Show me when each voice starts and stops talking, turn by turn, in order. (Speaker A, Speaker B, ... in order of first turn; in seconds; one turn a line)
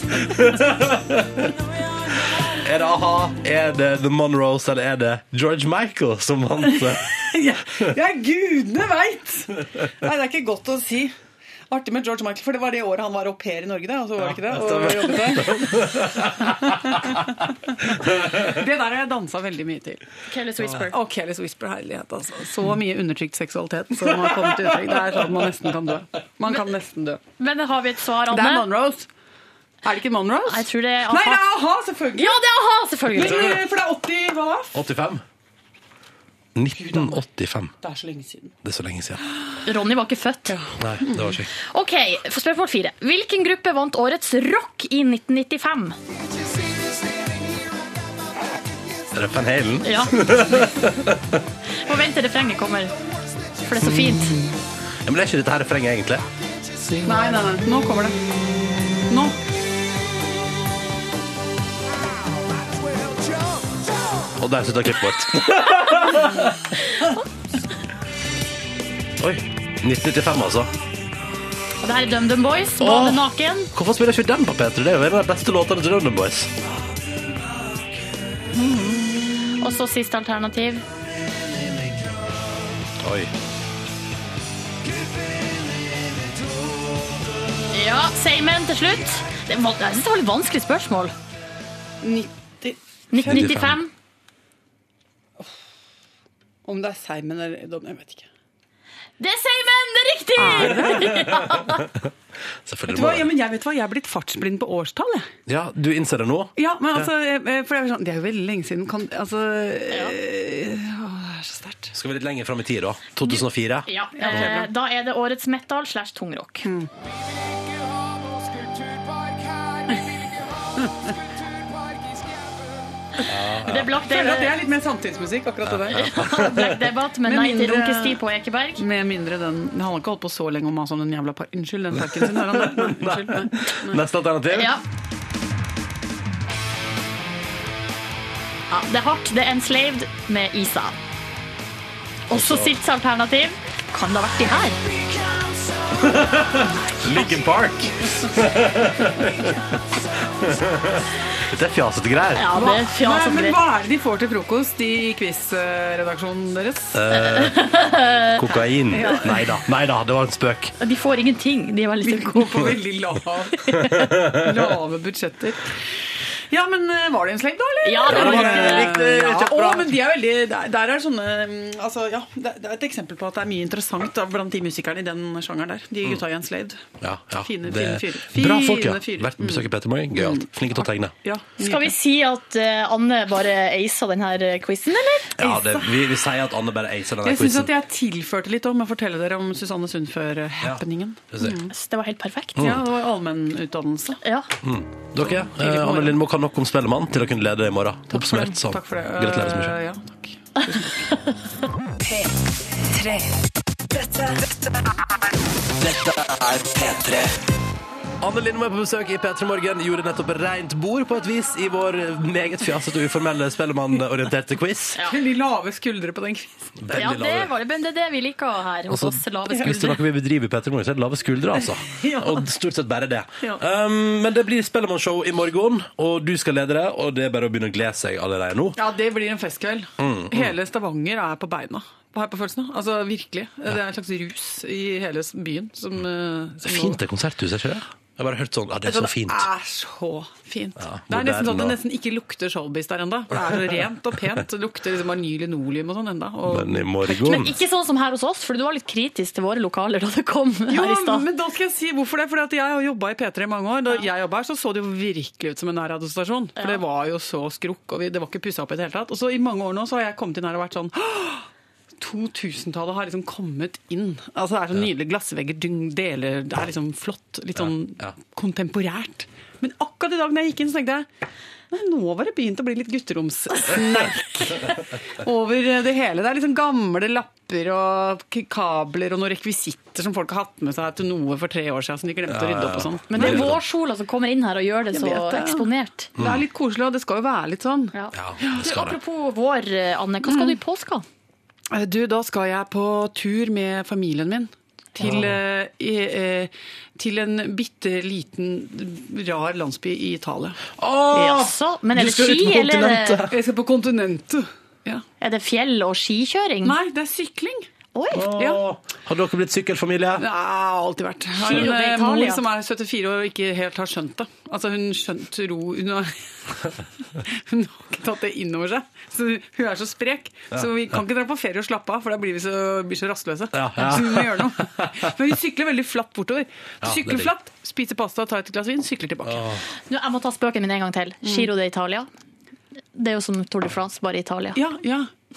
Speaker A: 0.2-1.5
Speaker A: 2.5-7.2
Speaker B: 7.2-11.1
Speaker B: 11.7-20.1
Speaker A: 14.2-16.7
Speaker C: 20.3-21.0
Speaker B: 20.8-27.2
Speaker C: 27.4-28.7
Speaker B: 28.3-29.1
Speaker B: 29.9-32.4
Speaker C: 30.4-31.4
Speaker C: 32.1-33.6
Speaker B: 33.1-34.8
Speaker A: 33.2-33.6
Speaker A: 34.7-35.2
Speaker A: 36.6-37.7
Speaker B: 36.8-37.2
Speaker B: 37.8-38.5
Speaker A: 38.6-39.2
Speaker C: 39.6-40.6
Speaker B: 40.5-41.4
Speaker A: 40.8-41.5
Speaker C: 41.6-46.0
Speaker A: 49.1-51.4
Speaker C: 49.8-50.8
Speaker C: 51.8-54.4
Speaker A: 53.8-54.3
Speaker A: 55.0-56.2
Speaker B: 57.0-58.2
Speaker B: 59.1-59.4
Speaker A: 64.4-66.6
Speaker A: 69.2-70.7
Speaker C: 71.8-73.7
Speaker A: 72.8-73.2
Speaker A: 73.7-76.5
Speaker C: 78.6-80.8
Speaker A: 83.0-83.3
Speaker C: 87.7-91.1
Speaker B: 92.0-92.8
Speaker C: 93.1-93.9
Speaker A: 93.2-93.8
Speaker B: 96.7-98.3
Speaker C: 99.2-102.0
Speaker B: 100.4-101.3
Speaker A: 100.9-101.1
Speaker A: 102.7-103.3
Speaker B: 102.9-105.3
Speaker A: 105.5-107.1
Speaker B: 106.6-112.0
Speaker A: 111.9-114.5
Speaker C: 113.2-116.7
Speaker B: 114.2-114.7
Speaker B: 116.6-116.9
Speaker A: 123.3-123.9
Speaker C: 123.6-124.6
Speaker B: 123.8-126.1
Speaker A: 125.7-126.9
Speaker C: 126.0-128.8
Speaker B: 127.2-128.2
Speaker B: 128.8-134.0
Speaker A: 132.1-134.7
Speaker C: 134.5-134.8
Speaker C: 138.7-141.0
Speaker C: 142.3-144.8
Speaker A: 142.3-142.7
Speaker A: 146.0-149.6
Speaker A: 150.4-152.5
Speaker C: 152.3-153.6
Speaker B: 152.5-157.0
Speaker A: 156.9-157.6
Speaker C: 157.2-159.3
Speaker A: 158.4-160.8
Speaker B: 158.9-159.4
Speaker C: 160.8-162.8
Speaker B: 162.0-165.7
Speaker C: 163.6-164.1
Speaker A: 164.0-164.3
Speaker B: 166.5-176.8
Speaker C: 167.8-169.0
Speaker A: 168.1-169.9
Speaker A: 177.0-181.1
Speaker B: 177.4-182.0
Speaker C: 181.6-185.4
Speaker A: 185.4-187.7
Speaker B: 185.4-186.0
Speaker B: 187.2-191.7
Speaker A: 190.6-191.6
Speaker C: 191.7-192.7
Speaker A: 192.6-192.8
Speaker B: 192.6-194.2
Speaker C: 194.2-194.5
Speaker A: 194.6-199.8
Speaker B: 195.2-196.2
Speaker B: 198.1-201.1
Speaker B: 202.9-203.2
Speaker A: 205.9-206.3
Speaker A: 206.8-207.3
Speaker A: 208.2-215.0
Speaker C: 215.0-215.2
Speaker B: 215.0-216.8
Speaker A: 216.8-217.5
Speaker C: 216.9-220.0
Speaker A: 218.9-228.8
Speaker B: 221.9-222.4
Speaker B: 228.8-237.0
Speaker A: 230.0-230.5
Speaker A: 236.6-239.5
Speaker B: 238.8-247.5
Speaker A: 240.8-241.8
Speaker A: 246.5-247.5
Speaker C: 247.3-251.3
Speaker B: 250.7-261.5
Speaker C: 256.6-256.8
Speaker B: 262.0-271.1
Speaker A: 267.6-268.1
Speaker B: 271.7-283.6
Speaker A: 282.3-283.6
Speaker C: 283.1-286.1
Speaker B: 284.9-288.7
Speaker A: 286.2-286.4
Speaker C: 287.9-291.1
Speaker A: 288.1-289.0
Speaker B: 290.2-290.6
Speaker B: 291.7-300.7
Speaker A: 295.0-295.4
Speaker A: 300.8-303.4
Speaker C: 301.1-303.3
Speaker B: 303.3-305.0
Speaker C: 305.2-306.8
Speaker B: 306.6-307.7
Speaker C: 307.9-308.3
Speaker A: 308.1-310.3
Speaker B: 308.4-308.6
Speaker B: 310.2-316.7
Speaker C: 311.4-312.4
Speaker B: 317.3-329.4
Speaker A: 323.5-325.1
Speaker A: 326.8-327.3
Speaker A: 329.2-329.7
Speaker C: 329.9-332.1
Speaker B: 331.2-331.5
Speaker C: 332.9-334.6
Speaker B: 334.6-335.1